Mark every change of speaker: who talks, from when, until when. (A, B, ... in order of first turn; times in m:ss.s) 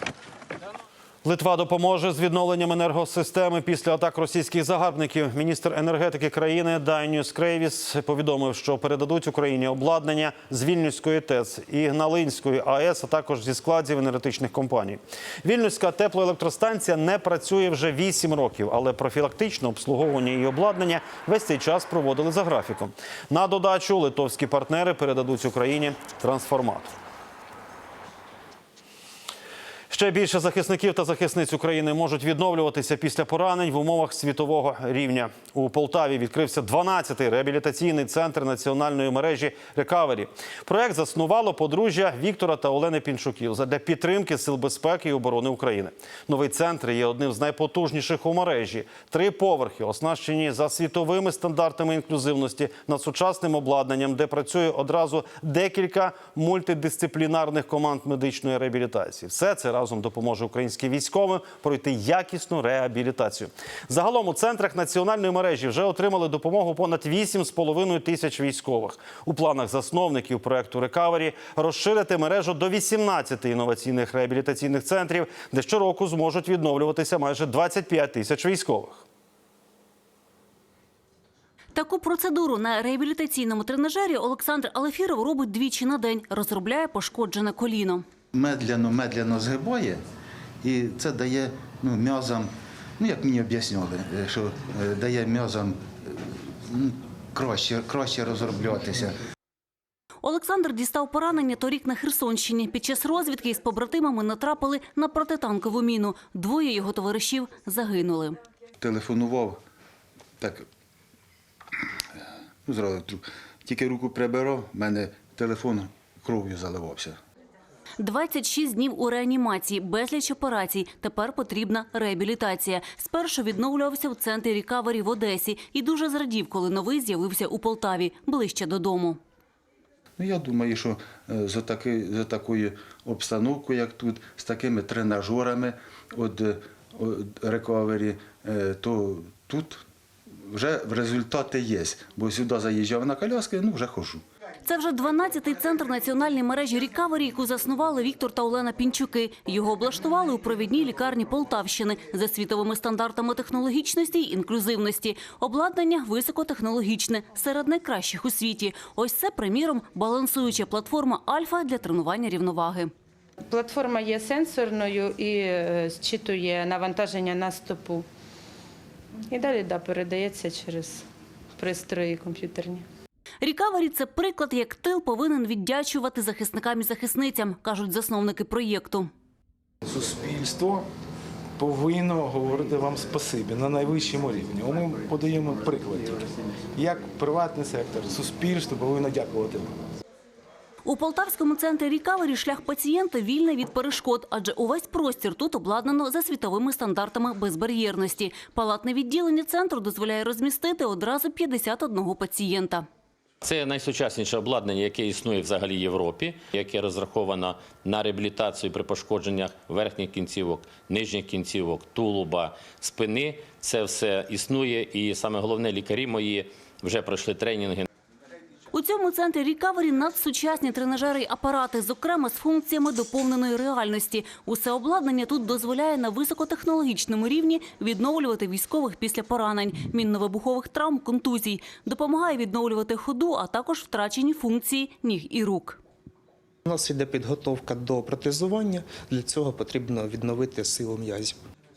0:01.2-0:26.9 A
0:29.9-1:19.0 A
1:21.8-1:28.0 B
1:28.3-1:30.0 C
1:30.6-1:39.2 C
1:40.2-1:48.4 B
1:48.8-1:49.6 C
1:50.4-1:50.7 C
1:52.7-1:57.2 C
1:58.0-2:09.2 B
2:10.2-2:19.8 C
2:20.4-2:24.2 C
2:24.7-2:42.9 B
2:43.4-2:48.1 D
2:49.3-2:52.9 D
2:53.4-2:59.1 B
2:59.8-3:00.8 E
3:01.6-3:09.8 E
3:10.9-3:22.8 B
3:23.4-3:37.9 F
3:38.7-3:55.8 B
3:56.6-4:01.4 G